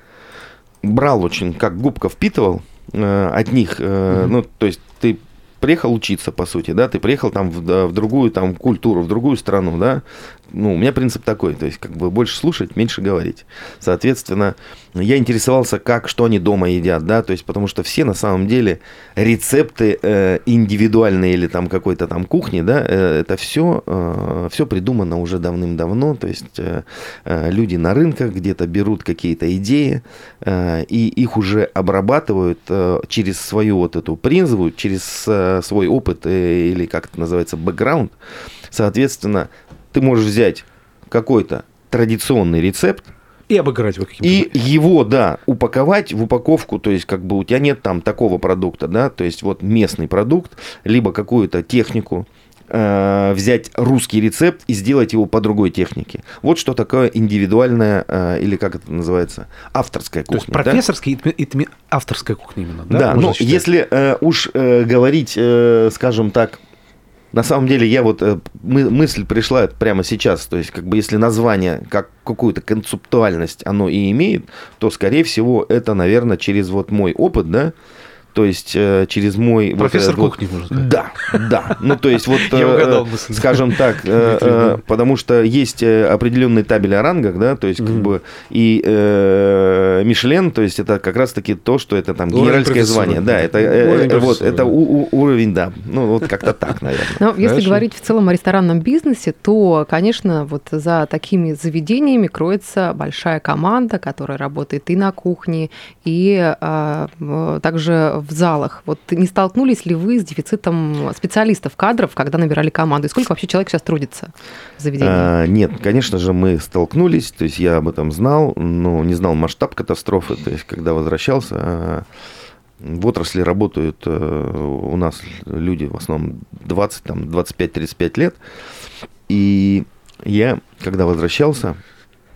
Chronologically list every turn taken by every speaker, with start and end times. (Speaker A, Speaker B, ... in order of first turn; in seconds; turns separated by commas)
Speaker A: 0.8-38.1, Speaker A: 38.7-43.1, Speaker B: 43.5-44.5, Speaker A: 44.2-60.8, Speaker B: 60.3-63.6, Speaker A: 62.9-66.6, Speaker A: 67.3-77.7, Speaker A: 78.3-97.2, Speaker B: 79.8-84.8, Speaker B: 87.8-88.1, Speaker B: 92.3-94.8, Speaker C: 97.2-115.3, Speaker B: 97.4-97.8, Speaker A: 115.0-122.0, Speaker A: 122.8-128.4, Speaker A: 129.3-131.8